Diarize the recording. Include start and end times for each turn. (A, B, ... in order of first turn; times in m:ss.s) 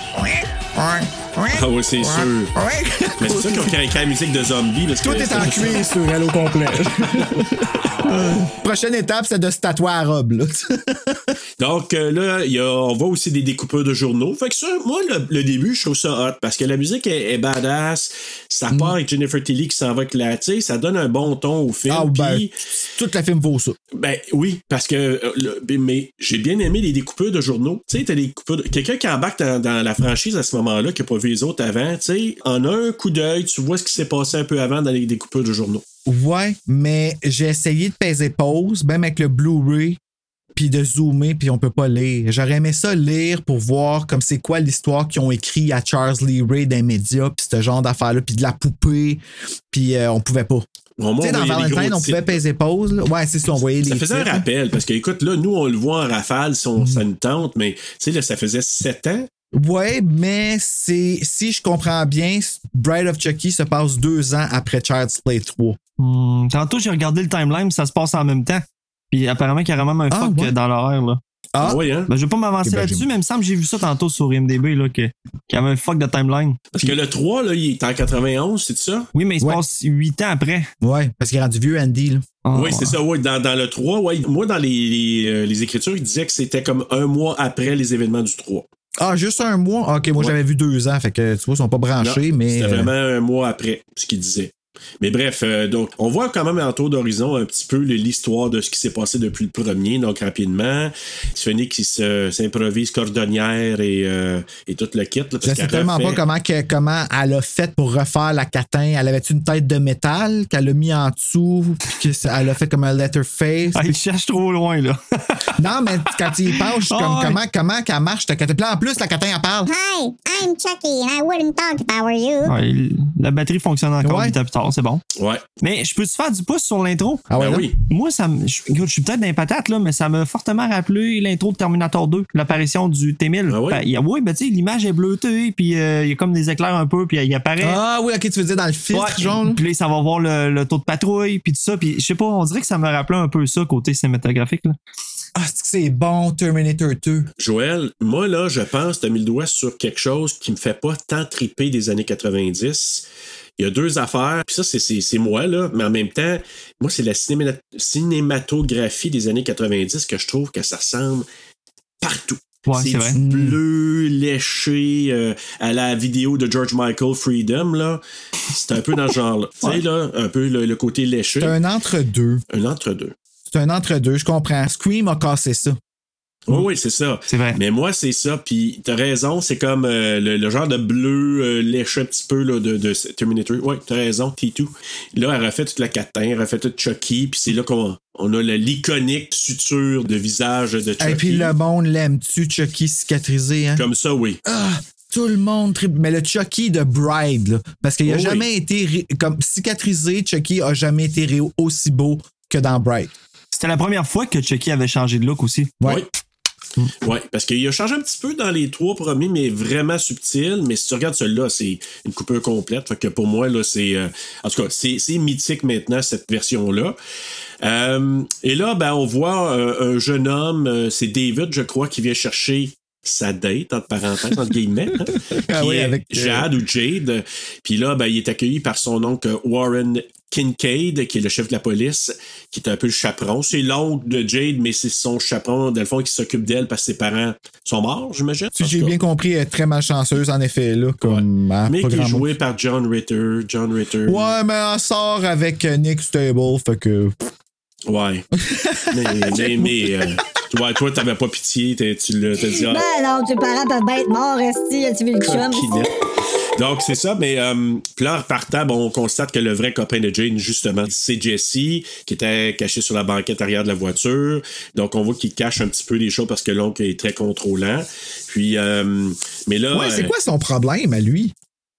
0:00.1-0:03.8 A
0:01.5-0:02.5 B
0:03.2-0:05.9 B
0:05.0-0:11.3 A
0:11.6-0:22.5 B
0:18.7-0:19.0 A
0:21.9-0:22.4 A
0:23.0-0:23.8 A
0:23.9-0:35.8 B
0:36.0-0:40.0 A
0:40.5-0:50.6 A
0:51.0-0:52.4 B
0:51.2-0:54.4 A
0:53.8-0:59.3 B
0:56.8-0:57.0 A
0:59.5-1:05.8 A
1:06.0-1:11.2 C
1:10.1-1:10.5 A
1:11.5-1:11.8 A
1:11.6-1:12.1 B
1:12.1-1:16.9 C
1:12.6-1:13.1 A
1:16.7-1:19.1 B
1:19.1-1:20.7 C
1:20.8-1:22.3 A
1:22.4-1:22.9 C
1:22.5-1:28.7 B
1:29.0-1:32.9 A
1:32.0-1:46.2 B
1:45.4-1:54.0 A
1:53.7-1:55.0 C
1:55.6-1:59.7 A
1:56.2-1:57.4 C
1:59.6-2:02.5 D
2:02.4-2:05.0 C
2:04.0-2:04.4 A
2:05.2-2:05.4 B
2:05.6-2:07.2 C
2:07.3-2:07.7 A
2:07.3-2:07.7 B
2:07.9-2:17.8 C
2:13.5-2:13.8 B
2:17.6-2:19.6 A
2:18.9-2:24.8 C
2:25.3-2:27.3 A
2:27.4-2:33.0 B
2:33.6-2:41.2 B
2:42.0-2:48.0 B
2:42.7-2:43.2 C
2:43.1-2:43.6 A
2:48.5-2:51.5 B
2:51.4-2:52.4 A
2:52.5-2:53.1 B
2:53.5-2:55.8 A
2:56.5-3:11.5 B
2:57.3-2:57.6 C
3:11.0-3:13.8 A
3:13.8-3:14.4 B
3:14.4-3:23.1 A
3:18.0-3:18.5 B
3:23.5-3:25.7 C
3:27.0-3:37.0 B
3:37.6-3:58.9 B
3:45.2-3:46.5 A
3:58.6-4:02.3 A
4:01.0-4:04.3 B
4:04.0-4:07.1 A
4:07.9-4:08.2 B
4:08.4-4:09.9 A
4:08.9-4:12.8 B
4:12.6-4:15.7 E
4:15.2-4:15.9 B
4:16.6-4:30.1 B
4:29.7-4:31.3 A